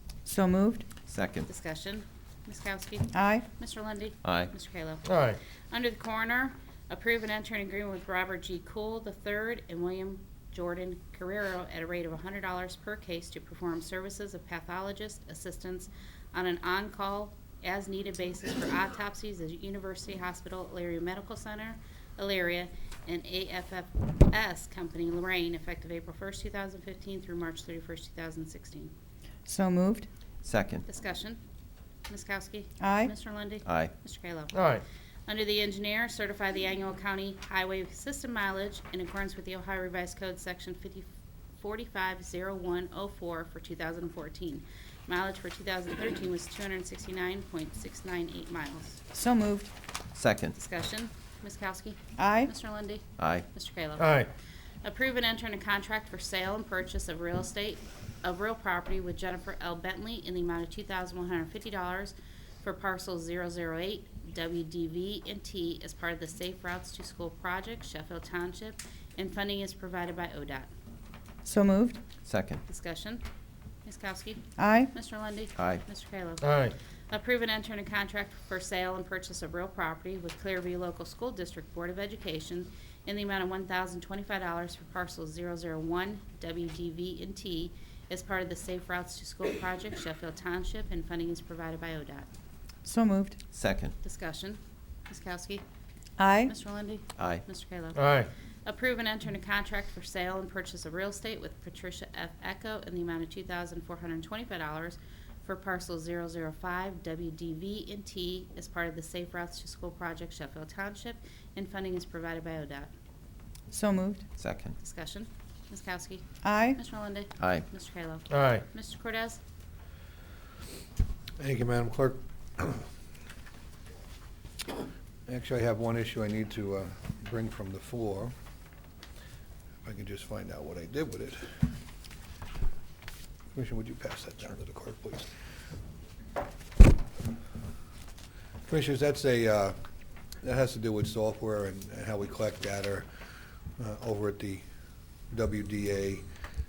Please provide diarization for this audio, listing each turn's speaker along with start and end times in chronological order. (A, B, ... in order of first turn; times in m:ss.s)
0:00.3-0:00.9 A
0:01.1-0:01.5 B
0:01.5-0:05.1 C
0:03.1-0:03.5 A
0:04.2-0:04.5 B
0:05.1-0:05.4 D
0:05.7-0:28.9 C
0:29.5-0:30.1 A
0:30.4-0:30.8 B
0:30.9-0:31.4 C
0:32.1-0:34.6 C
0:32.8-0:33.1 A
0:33.6-0:33.9 B
0:34.5-0:34.8 D
0:35.3-0:41.1 C
0:41.6-0:49.0 C
0:49.1-0:49.7 A
0:50.1-0:50.6 B
0:50.6-0:54.2 C
0:52.2-0:52.6 A
0:53.2-0:53.5 B
0:54.0-0:54.3 D
0:54.8-1:10.7 C
1:11.4-1:12.0 A
1:12.2-1:12.6 B
1:12.7-1:13.2 C
1:13.8-1:16.5 C
1:14.6-1:15.0 A
1:15.6-1:15.8 B
1:16.4-1:16.7 D
1:17.1-1:32.3 C
1:32.8-1:33.4 A
1:33.5-1:33.9 B
1:34.0-1:35.6 C
1:36.2-1:36.6 A
1:36.5-1:38.1 C
1:37.2-1:37.4 B
1:38.0-1:38.3 D
1:38.6-1:52.9 C
1:53.7-1:54.3 A
1:54.4-1:54.8 B
1:54.8-1:59.4 C
1:56.4-1:56.8 A
1:57.4-1:57.6 B
1:58.3-1:58.6 D
2:01.4-2:02.9 E
2:05.3-2:08.3 E
2:09.8-2:11.5 E
2:13.5-2:15.3 E
2:18.7-2:19.8 E
2:20.4-2:23.1 E
2:23.8-2:24.6 E
2:25.3-2:26.3 E